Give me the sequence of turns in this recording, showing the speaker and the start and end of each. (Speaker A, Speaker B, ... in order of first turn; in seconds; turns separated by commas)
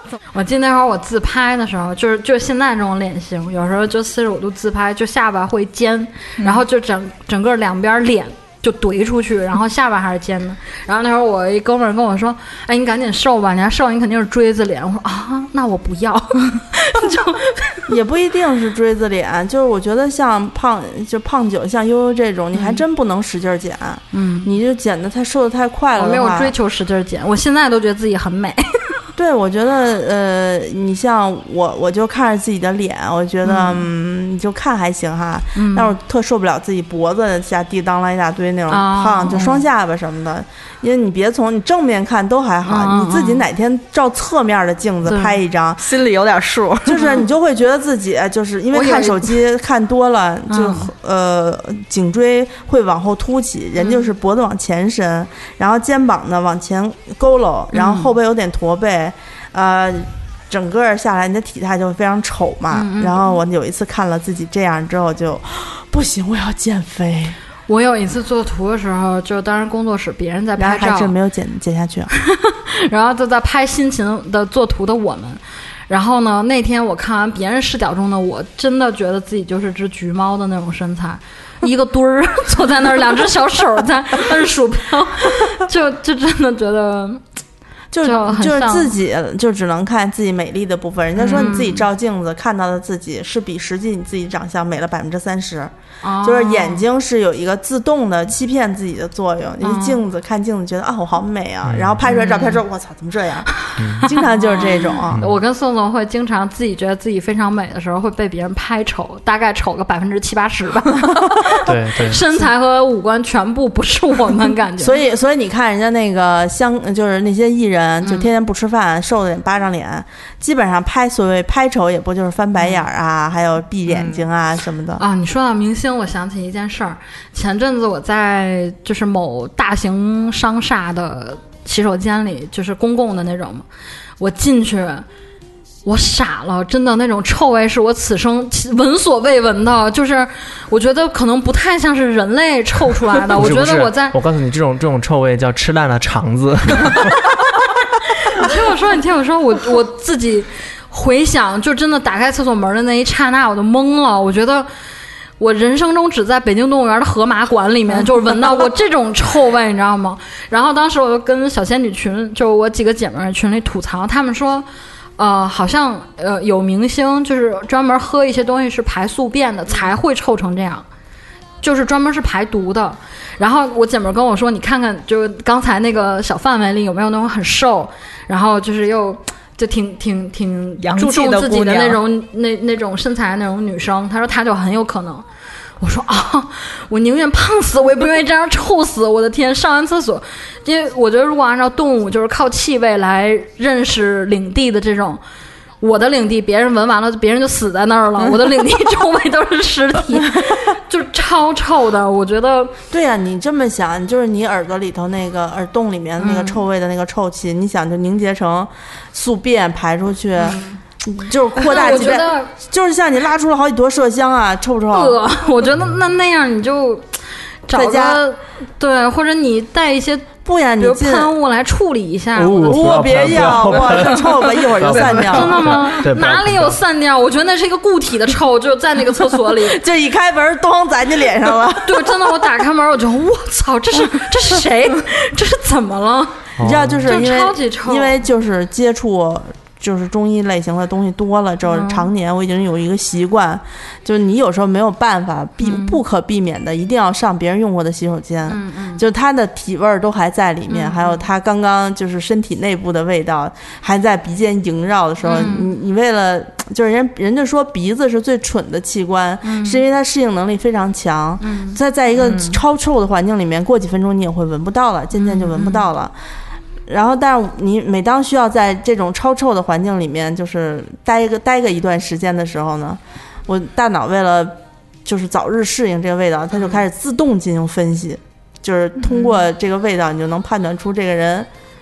Speaker A: 0.3-17.9, Speaker B: 17.9-26.5, Speaker A: 22.5-22.8, Speaker A: 24.1-24.5, Speaker A: 25.9-29.0, Speaker B: 29.1-45.9, Speaker A: 33.4-33.9, Speaker A: 35.5-35.9, Speaker A: 38.7-39.6, Speaker C: 39.3-39.6, Speaker A: 42.6-43.4, Speaker A: 45.0-45.4, Speaker C: 45.8-47.1, Speaker B: 46.8-67.4, Speaker A: 47.0-47.2, Speaker A: 48.7-49.4, Speaker A: 50.5-50.9, Speaker A: 53.8-54.1, Speaker A: 57.7-58.1, Speaker A: 62.7-63.3, Speaker A: 67.7-71.1, Speaker B: 70.6-72.1, Speaker A: 72.1-87.2, Speaker B: 87.9-95.7, Speaker A: 88.0-88.9, Speaker A: 91.2-91.8, Speaker A: 96.0-96.8, Speaker B: 96.2-103.5, Speaker A: 99.6-100.0, Speaker D: 101.6-102.0, Speaker A: 102.0-102.6, Speaker D: 103.8-104.1, Speaker B: 104.0-105.3, Speaker A: 104.2-115.0, Speaker D: 111.6-112.2, Speaker B: 114.8-125.0, Speaker A: 118.0-118.3, Speaker A: 125.0-133.7, Speaker A: 134.2-135.0, Speaker A: 135.8-144.2, Speaker D: 143.3-147.3, Speaker A: 148.1-154.7, Speaker A: 155.4-164.7, Speaker A: 165.2-170.8, Speaker A: 171.6-185.2, Speaker C: 180.8-182.0, Speaker A: 185.8-195.2, Speaker A: 195.8-202.8, Speaker B: 202.9-215.2, Speaker A: 206.2-206.6, Speaker A: 210.4-210.8, Speaker A: 211.6-212.5, Speaker A: 214.9-217.1, Speaker A: 217.7-223.5, Speaker B: 217.7-218.2, Speaker B: 220.4-221.3, Speaker D: 222.3-226.8, Speaker B: 222.6-225.8, Speaker A: 225.1-229.8, Speaker B: 229.6-232.2, Speaker A: 231.8-236.5, Speaker D: 236.6-237.0, Speaker B: 236.6-266.1, Speaker A: 237.0-238.2, Speaker A: 241.7-242.1, Speaker A: 245.6-246.0, Speaker A: 248.5-249.0, Speaker A: 250.7-251.2, Speaker A: 255.2-255.7, Speaker A: 259.4-259.8, Speaker A: 261.4-261.8, Speaker A: 265.1-265.9, Speaker B: 266.9-281.5, Speaker A: 279.0-279.4